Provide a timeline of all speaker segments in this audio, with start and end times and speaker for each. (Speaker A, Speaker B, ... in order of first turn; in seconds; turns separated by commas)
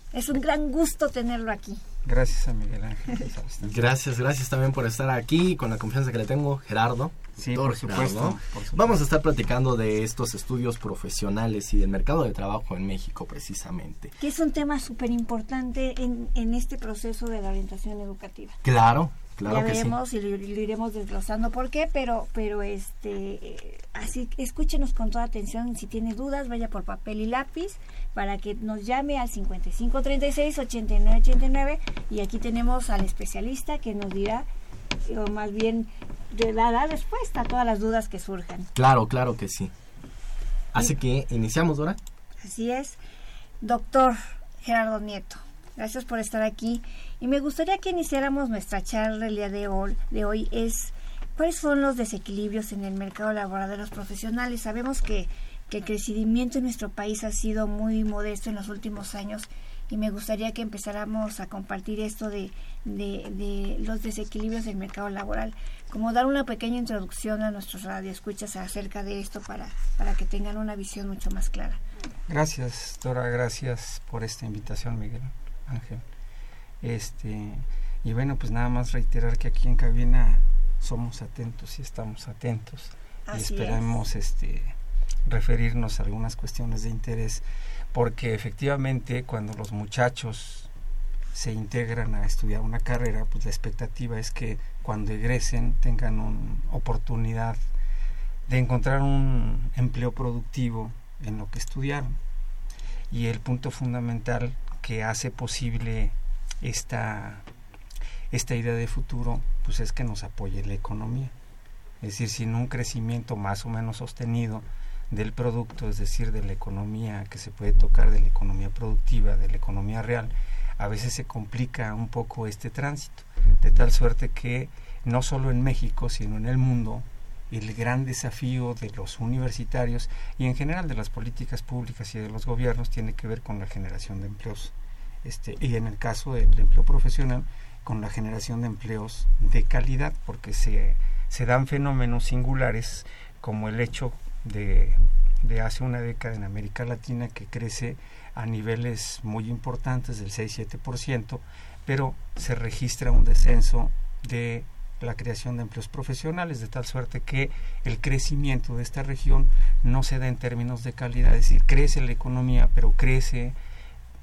Speaker A: 0.1-1.8, Speaker B: 2.0-3.8, Speaker C: 3.6-14.1, Speaker B: 7.4-9.0, Speaker A: 14.2-18.6, Speaker C: 18.6-19.9, Speaker A: 19.4-34.5, Speaker A: 35.0-38.7, Speaker C: 38.7-39.7, Speaker C: 40.7-42.0, Speaker A: 42.4-43.0, Speaker A: 43.6-71.8, Speaker B: 72.3-76.0, Speaker B: 76.8-84.7, Speaker A: 83.3-84.0, Speaker B: 85.2-90.7, Speaker B: 91.3-97.6, Speaker B: 98.5-102.2, Speaker B: 103.1-107.4, Speaker B: 108.3-111.3, Speaker B: 112.0-134.7, Speaker B: 135.2-163.6